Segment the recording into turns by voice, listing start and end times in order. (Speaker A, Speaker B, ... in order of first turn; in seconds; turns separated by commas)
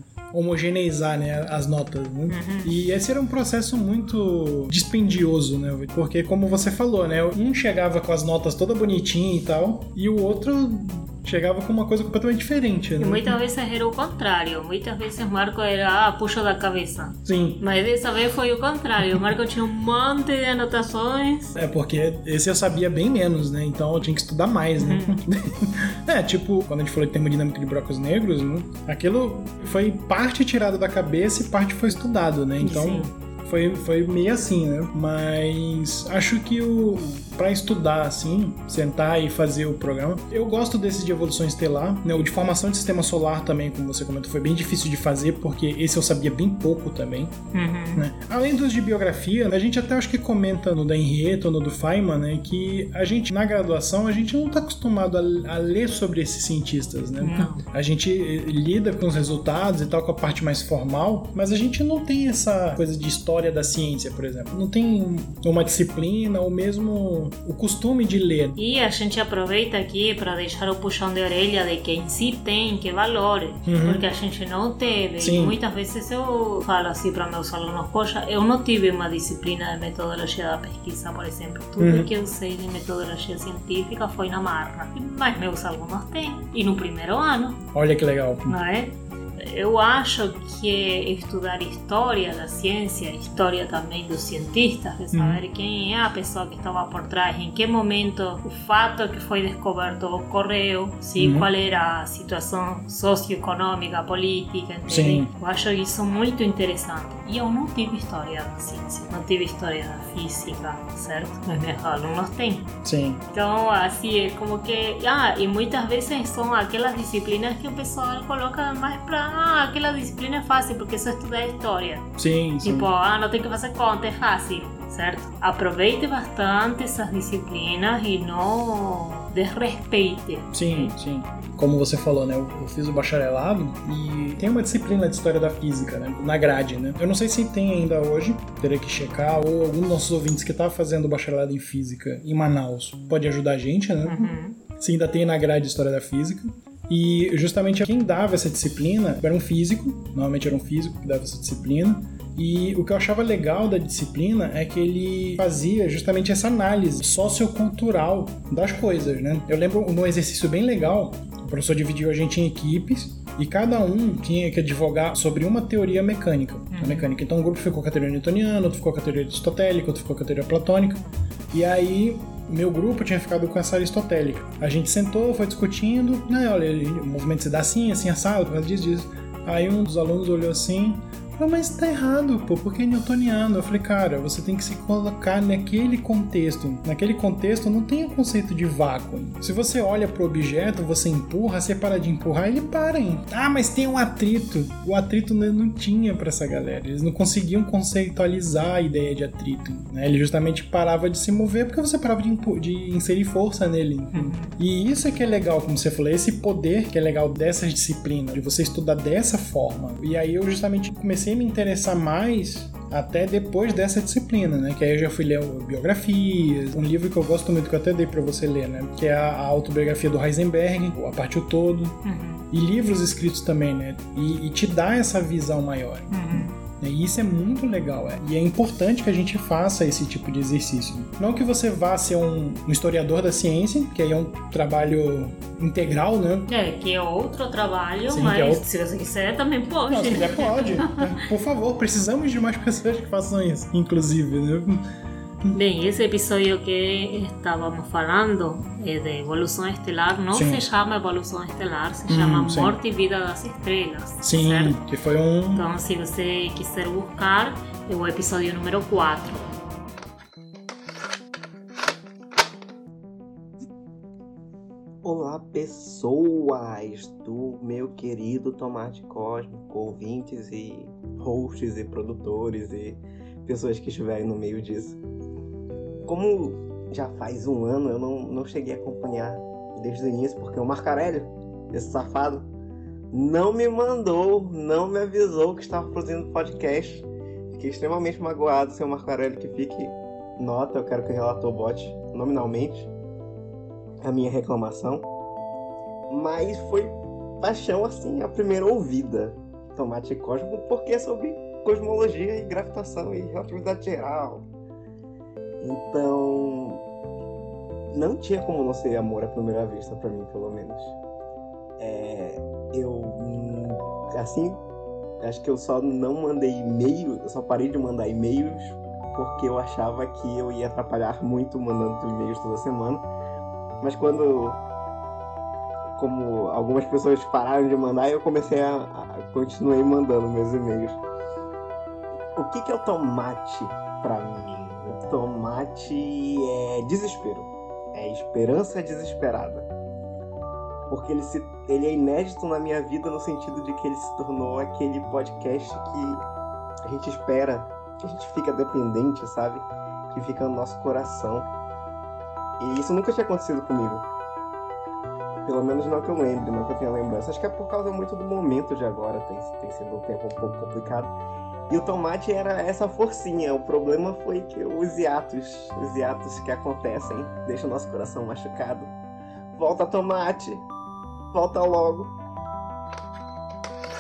Speaker A: 0.3-13.4, Speaker B: 2.3-2.7, Speaker B: 13.0-21.6, Speaker A: 17.2-17.6, Speaker A: 21.6-47.4, Speaker B: 24.8-25.2, Speaker B: 32.6-33.1, Speaker B: 47.5-48.0, Speaker A: 48.0-68.6, Speaker B: 57.2-57.6, Speaker B: 68.6-87.6, Speaker A: 73.7-74.0, Speaker A: 75.2-75.6, Speaker A: 81.8-82.1, Speaker A: 87.7-88.5, Speaker B: 88.5-112.7, Speaker A: 95.1-95.4, Speaker A: 101.2-101.5, Speaker A: 104.9-105.3, Speaker A: 112.8-113.2, Speaker B: 113.3-122.1, Speaker A: 122.2-122.9, Speaker B: 122.6-130.9, Speaker A: 130.5-222.0, Speaker B: 144.1-144.6, Speaker B: 166.7-167.1, Speaker B: 204.1-204.5, Speaker B: 222.0-222.4, Speaker A: 222.5-236.5, Speaker B: 226.1-226.6, Speaker B: 236.5-241.2, Speaker A: 238.1-238.6, Speaker A: 239.9-244.9, Speaker B: 245.5-254.8, Speaker A: 250.3-250.6, Speaker A: 252.1-252.8, Speaker A: 254.2-255.7, Speaker B: 255.5-259.5, Speaker C: 265.0-275.0, Speaker C: 276.1-282.5, Speaker C: 283.1-292.9, Speaker C: 294.0-295.1, Speaker C: 296.1-304.4, Speaker C: 305.6-306.8, Speaker C: 307.9-311.0, Speaker C: 311.8-314.6, Speaker C: 315.2-323.1, Speaker C: 323.8-324.6, Speaker C: 326.0-331.0, Speaker C: 332.4-339.7, Speaker C: 340.9-346.2, Speaker C: 346.9-351.5, Speaker C: 352.6-354.1, Speaker C: 355.4-361.1, Speaker C: 361.7-368.9, Speaker C: 369.6-370.6, Speaker C: 371.3-372.1